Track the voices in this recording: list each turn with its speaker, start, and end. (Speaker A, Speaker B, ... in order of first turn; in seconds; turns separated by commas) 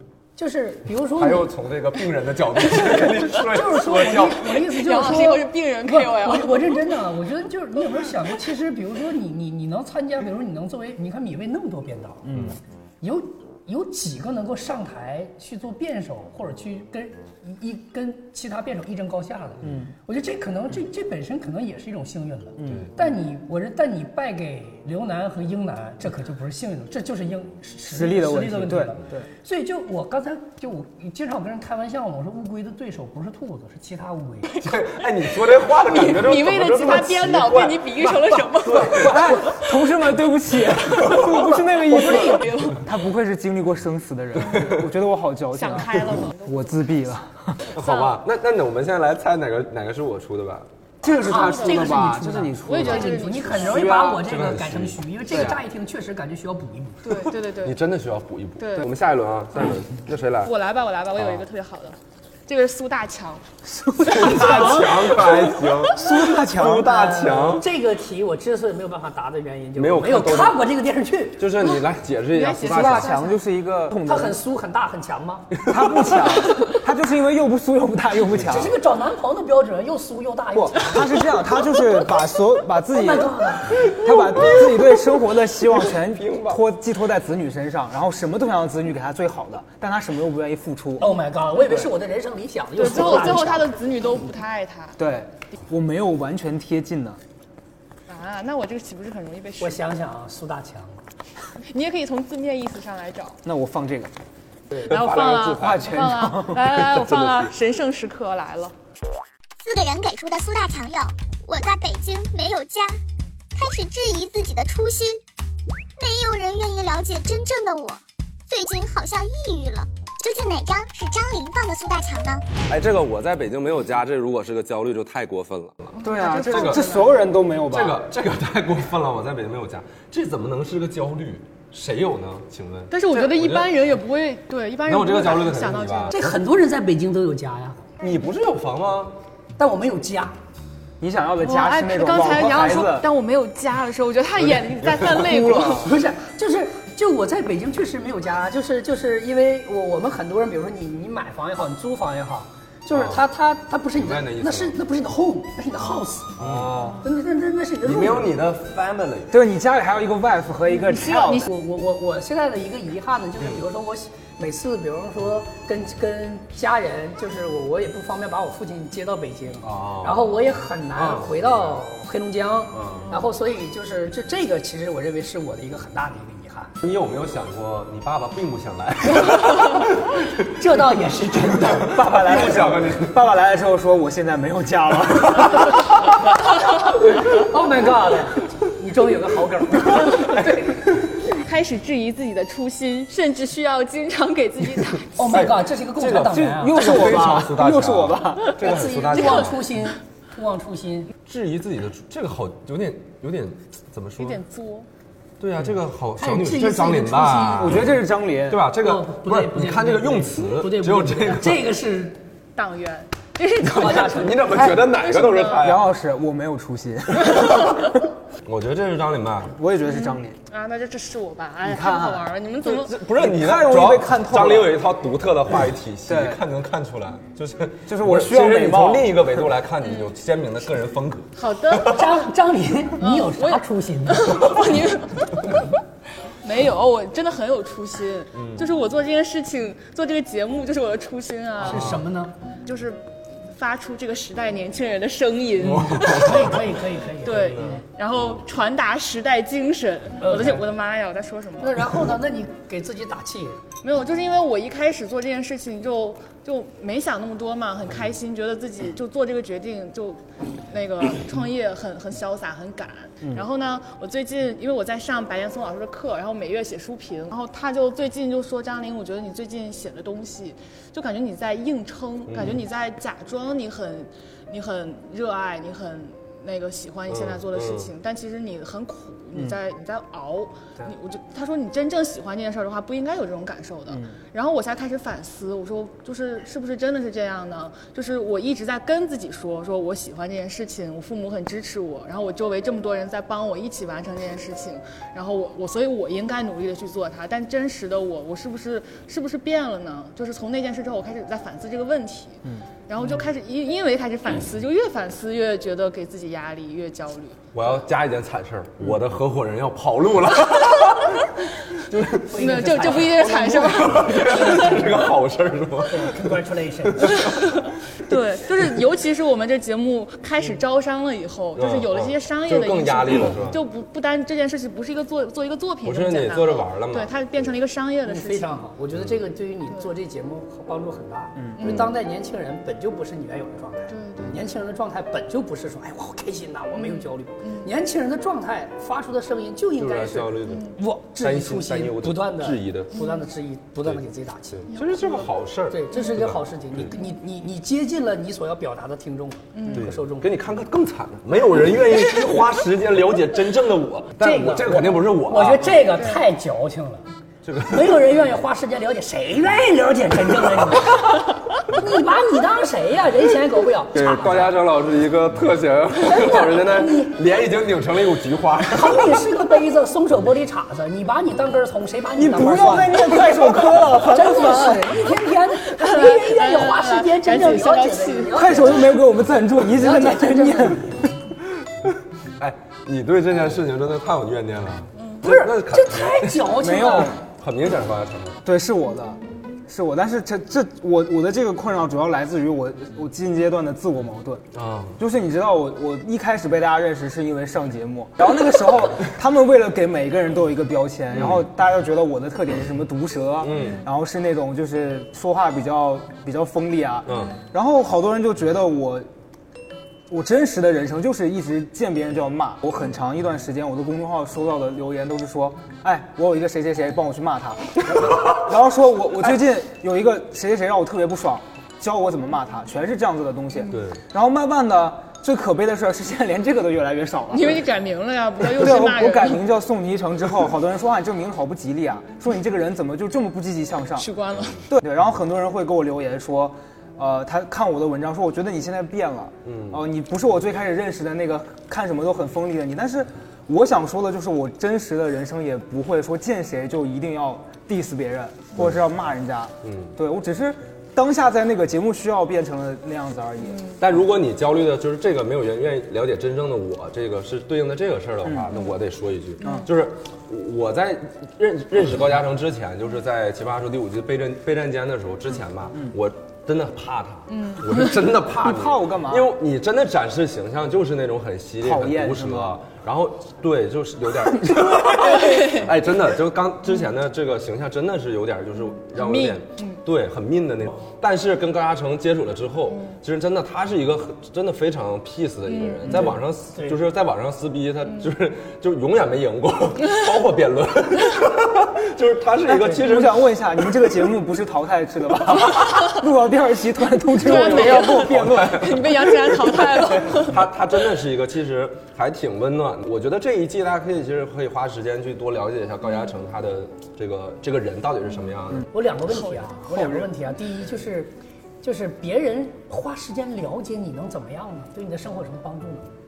Speaker A: 0.4-1.5, Speaker B: 1.1-4.5, Speaker A: 3.3-12.3, Speaker C: 4.5-6.8, Speaker D: 12.2-12.6, Speaker A: 13.0-34.5, Speaker D: 19.6-19.9, Speaker D: 22.6-22.9, Speaker D: 27.8-29.3, Speaker C: 34.5-39.6, Speaker B: 34.6-39.5, Speaker D: 39.0-47.7, Speaker C: 41.1-42.9, Speaker A: 41.8-42.5, Speaker C: 45.5-47.1, Speaker B: 47.8-50.7, Speaker C: 47.8-48.2, Speaker D: 51.0-53.2, Speaker A: 51.2-57.0, Speaker C: 51.3-52.1, Speaker C: 52.6-53.9, Speaker B: 53.6-55.6, Speaker C: 57.0-57.8, Speaker B: 57.6-60.5, Speaker C: 58.6-58.9, Speaker C: 60.4-63.4, Speaker B: 61.1-61.5, Speaker D: 63.6-65.1, Speaker B: 64.0-67.7, Speaker D: 65.9-67.3, Speaker A: 66.9-71.4, Speaker B: 69.8-70.7, Speaker B: 71.4-73.2, Speaker C: 72.3-73.4, Speaker D: 72.7-74.4, Speaker A: 74.0-75.6, Speaker D: 75.6-78.7, Speaker B: 75.7-76.2, Speaker A: 78.4-81.2, Speaker B: 78.4-78.7, Speaker D: 80.5-91.1, Speaker A: 82.9-83.9, Speaker B: 83.8-84.8, Speaker B: 85.6-86.6, Speaker A: 91.0-93.7, Speaker C: 92.8-95.0, Speaker D: 95.0-97.2, Speaker C: 98.1-99.8, Speaker A: 99.6-101.0, Speaker C: 101.7-103.4, Speaker D: 103.5-104.1, Speaker B: 104.8-106.1, Speaker C: 104.8-108.7, Speaker D: 105.5-106.7, Speaker B: 106.7-107.5, Speaker E: 109.6-113.0, Speaker E: 113.5-115.2, Speaker E: 116.0-122.4, Speaker B: 122.7-127.0, Speaker C: 126.0-127.2, Speaker D: 126.0-128.0, Speaker B: 127.7-133.8, Speaker C: 132.9-136.2, Speaker B: 134.9-136.4, Speaker A: 136.1-137.9, Speaker B: 138.0-139.2, Speaker A: 139.6-140.4, Speaker D: 141.0-143.1, Speaker C: 141.4-145.9, Speaker B: 144.5-145.2, Speaker A: 145.2-156.4, Speaker B: 152.9-153.2, Speaker B: 154.0-154.8, Speaker B: 156.4-157.0, Speaker D: 156.4-157.0, Speaker A: 157.0-158.3, Speaker B: 157.8-159.4, Speaker D: 159.3-161.5, Speaker A: 161.2-176.7, Speaker B: 169.6-170.3, Speaker B: 170.9-171.8, Speaker B: 172.7-173.2, Speaker B: 176.8-180.8, Speaker A: 180.6-181.9, Speaker B: 181.5-183.3, Speaker D: 181.8-185.8, Speaker A: 187.3-190.6, Speaker C: 191.3-195.5, Speaker A: 195.2-196.9, Speaker B: 195.3-199.6, Speaker D: 196.3-199.1, Speaker A: 198.6-201.1, Speaker B: 201.3-204.4, Speaker C: 204.2-204.9, Speaker B: 205.4-211.7, Speaker A: 206.2-207.9, Speaker D: 207.6-208.7, Speaker A: 208.8-212.2, Speaker C: 212.6-215.7, Speaker A: 213.6-214.5, Speaker B: 213.9-215.9, Speaker D: 215.6-217.8, Speaker B: 218.4-219.5, Speaker D: 219.5-220.4, Speaker C: 219.8-223.0, Speaker D: 221.7-222.3, Speaker B: 222.6-232.0, Speaker D: 223.2-224.8, Speaker D: 226.1-226.4, Speaker D: 227.9-229.3, Speaker C: 229.8-230.2, Speaker C: 231.4-232.1, Speaker A: 231.8-234.6, Speaker C: 233.0-235.6, Speaker C: 236.4-242.0, Speaker B: 238.3-238.7, Speaker A: 241.6-242.3, Speaker B: 241.7-242.0, Speaker C: 242.7-246.6, Speaker B: 245.6-246.6, Speaker A: 246.0-247.8, Speaker C: 247.2-252.0, Speaker B: 247.2-248.4, Speaker A: 250.2-250.6, Speaker A: 251.6-253.6, Speaker C: 253.8-307.4, Speaker B: 272.3-272.6, Speaker B: 277.1-277.9, Speaker D: 283.9-284.2, Speaker B: 307.5-311.3, Speaker B: 311.8-317.5, Speaker A: 312.3-313.3, Speaker C: 312.4-314.9, Speaker A: 314.1-314.9, Speaker A: 315.9-317.2, Speaker C: 317.2-328.6, Speaker B: 321.6-323.6, Speaker B: 325.8-327.5, Speaker A: 328.1-344.7, Speaker B: 328.9-329.2, Speaker D: 331.4-331.8, Speaker C: 331.6-331.9, Speaker C: 333.9-334.4, Speaker C: 336.7-337.7, Speaker B: 339.8-342.9, Speaker C: 340.5-340.8, Speaker C: 342.9-343.3, Speaker B: 343.8-346.9, Speaker C: 344.7-345.3, Speaker A: 345.7-350.3, Speaker C: 345.9-346.2, Speaker C: 349.5-349.9, Speaker B: 349.7-355.9, Speaker A: 354.2-357.1, Speaker C: 355.9-356.2, Speaker B: 357.4-358.0, Speaker A: 357.6-364.5, Speaker B: 363.9-369.4, Speaker A: 366.0-367.2, Speaker A: 368.7-373.3, Speaker D: 372.2-375.0, Speaker A: 374.0-379.0, Speaker C: 375.7-378.8, Speaker D: 378.3-381.1, Speaker A: 379.7-381.1, Speaker B: 382.4-386.5, Speaker C: 385.0-385.2, Speaker A: 385.2-387.1, Speaker D: 386.6-387.2, Speaker B: 387.2-388.4, Speaker D: 388.4-394.4, Speaker B: 394.5-395.0, Speaker D: 395.0-409.1, Speaker B: 401.1-401.5, Speaker B: 403.4-403.8, Speaker C: 403.5-403.9, Speaker B: 407.1-407.4, Speaker D: 410.1-427.6, Speaker C: 423.6-423.8, Speaker B: 423.7-424.0, Speaker C: 427.3-429.4, Speaker D: 428.5-434.1, Speaker C: 434.0-434.6, Speaker D: 434.7-453.7, Speaker B: 439.4-439.8, Speaker B: 449.6-450.0, Speaker C: 453.5-453.8, Speaker B: 453.8-493.3, Speaker C: 459.4-459.7, Speaker C: 467.3-468.0, Speaker D: 468.4-469.3, Speaker D: 471.6-472.6, Speaker C: 475.1-475.7, Speaker C: 478.9-479.8, Speaker C: 482.7-483.0, Speaker C: 485.5-486.1, Speaker D: 485.9-486.2, Speaker D: 492.5-498.8, Speaker C: 497.1-500.4, Speaker B: 497.4-499.1, Speaker B: 500.1-508.7, Speaker C: 505.9-506.1, Speaker A: 508.7-515.9, Speaker C: 509.1-509.6